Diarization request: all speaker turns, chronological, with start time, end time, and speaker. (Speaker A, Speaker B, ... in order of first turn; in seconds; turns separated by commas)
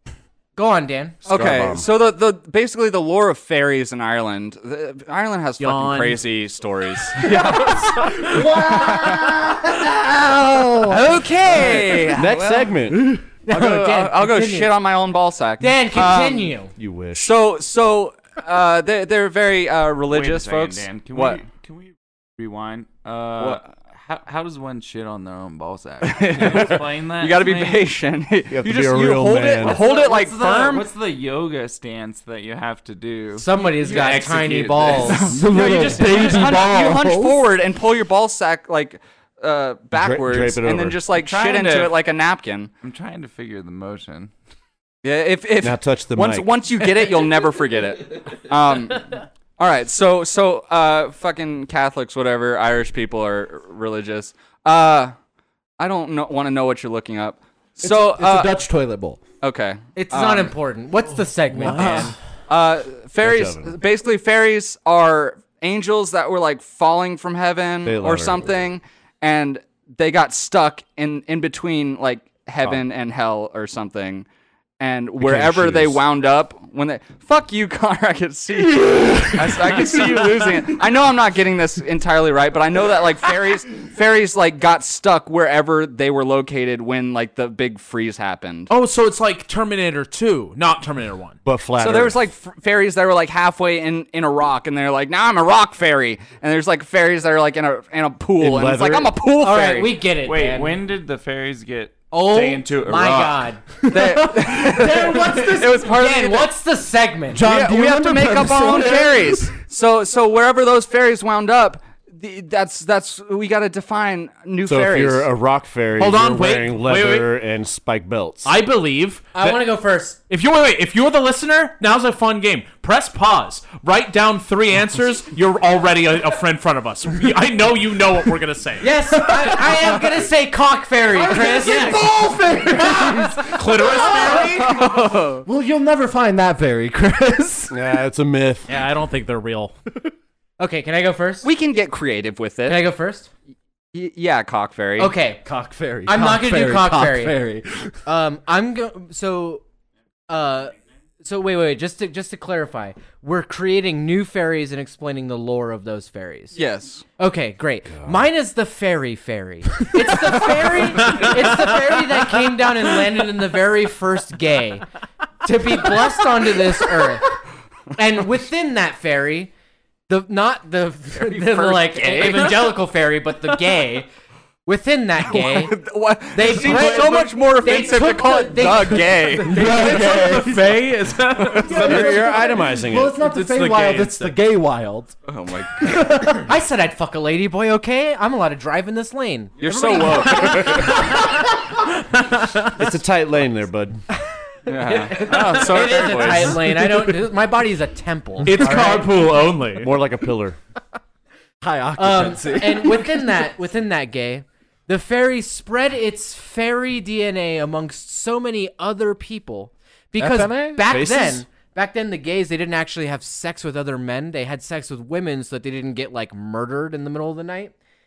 Speaker A: 0.6-1.2, Speaker B: 1.2-9.8, Speaker C: 1.3-1.9, Speaker D: 5.6-6.2, Speaker E: 7.2-12.1, Speaker B: 10.9-12.7, Speaker A: 11.2-11.8, Speaker C: 12.1-13.2, Speaker E: 12.9-13.3, Speaker A: 13.5-14.8, Speaker B: 13.5-16.5, Speaker A: 15.6-16.7, Speaker C: 16.8-17.3, Speaker B: 17.2-21.4, Speaker F: 20.1-27.9, Speaker B: 23.4-23.7, Speaker B: 26.0-30.9, Speaker C: 28.5-29.8, Speaker F: 29.5-35.4, Speaker A: 33.4-35.9, Speaker B: 35.0-42.7, Speaker E: 35.3-37.4, Speaker C: 39.9-41.0, Speaker F: 41.1-42.0, Speaker F: 42.8-44.3, Speaker B: 45.0-55.1, Speaker C: 45.6-46.5, Speaker B: 55.8-58.6, Speaker E: 57.8-59.2, Speaker B: 59.4-60.5, Speaker A: 60.0-62.1, Speaker C: 61.6-62.1, Speaker B: 61.8-74.3, Speaker C: 63.2-63.8, Speaker C: 67.8-68.6, Speaker B: 74.8-88.7, Speaker C: 75.2-76.0, Speaker E: 78.8-79.7, Speaker D: 88.7-91.4, Speaker C: 91.5-92.2, Speaker B: 91.8-100.0, Speaker C: 98.4-99.1, Speaker A: 99.4-100.8, Speaker F: 100.2-103.5, Speaker A: 102.1-103.6, Speaker E: 103.8-106.0, Speaker B: 103.9-106.5, Speaker A: 105.9-107.4, Speaker E: 107.3-109.6, Speaker B: 107.4-115.3, Speaker C: 114.7-118.5, Speaker D: 116.0-117.3, Speaker D: 118.4-119.7, Speaker A: 119.3-120.2, Speaker D: 120.3-128.9, Speaker A: 128.8-132.0, Speaker E: 129.3-130.1, Speaker E: 131.1-137.8, Speaker D: 131.6-132.3, Speaker D: 132.9-134.8, Speaker B: 134.4-135.5, Speaker C: 137.7-138.7, Speaker D: 138.7-139.8, Speaker A: 140.6-141.5, Speaker B: 141.4-142.8, Speaker A: 142.7-143.3, Speaker B: 143.9-145.2, Speaker A: 145.0-145.4, Speaker E: 145.4-148.0, Speaker A: 146.1-147.4, Speaker A: 148.1-149.6, Speaker A: 150.3-156.6, Speaker B: 156.5-157.1, Speaker A: 157.2-164.9, Speaker C: 157.9-158.2, Speaker A: 165.4-167.3, Speaker A: 168.0-169.5, Speaker A: 170.1-174.1, Speaker B: 171.2-172.7, Speaker A: 174.7-175.8, Speaker B: 175.3-180.1, Speaker A: 176.3-180.3, Speaker E: 179.5-180.8, Speaker D: 179.6-182.2, Speaker B: 181.4-182.1, Speaker E: 181.4-185.2, Speaker C: 181.6-183.2, Speaker D: 183.2-184.4, Speaker B: 185.3-186.2, Speaker E: 185.8-186.5, Speaker A: 186.4-191.0, Speaker B: 189.6-191.3, Speaker D: 190.4-191.4, Speaker D: 192.0-192.7, Speaker C: 192.7-194.0, Speaker B: 194.7-196.7, Speaker A: 194.8-199.1, Speaker D: 196.4-197.1, Speaker D: 198.4-199.9, Speaker E: 198.7-199.0, Speaker C: 199.8-200.6, Speaker E: 201.6-203.4, Speaker A: 202.0-217.7, Speaker E: 210.2-210.9, Speaker C: 210.9-211.5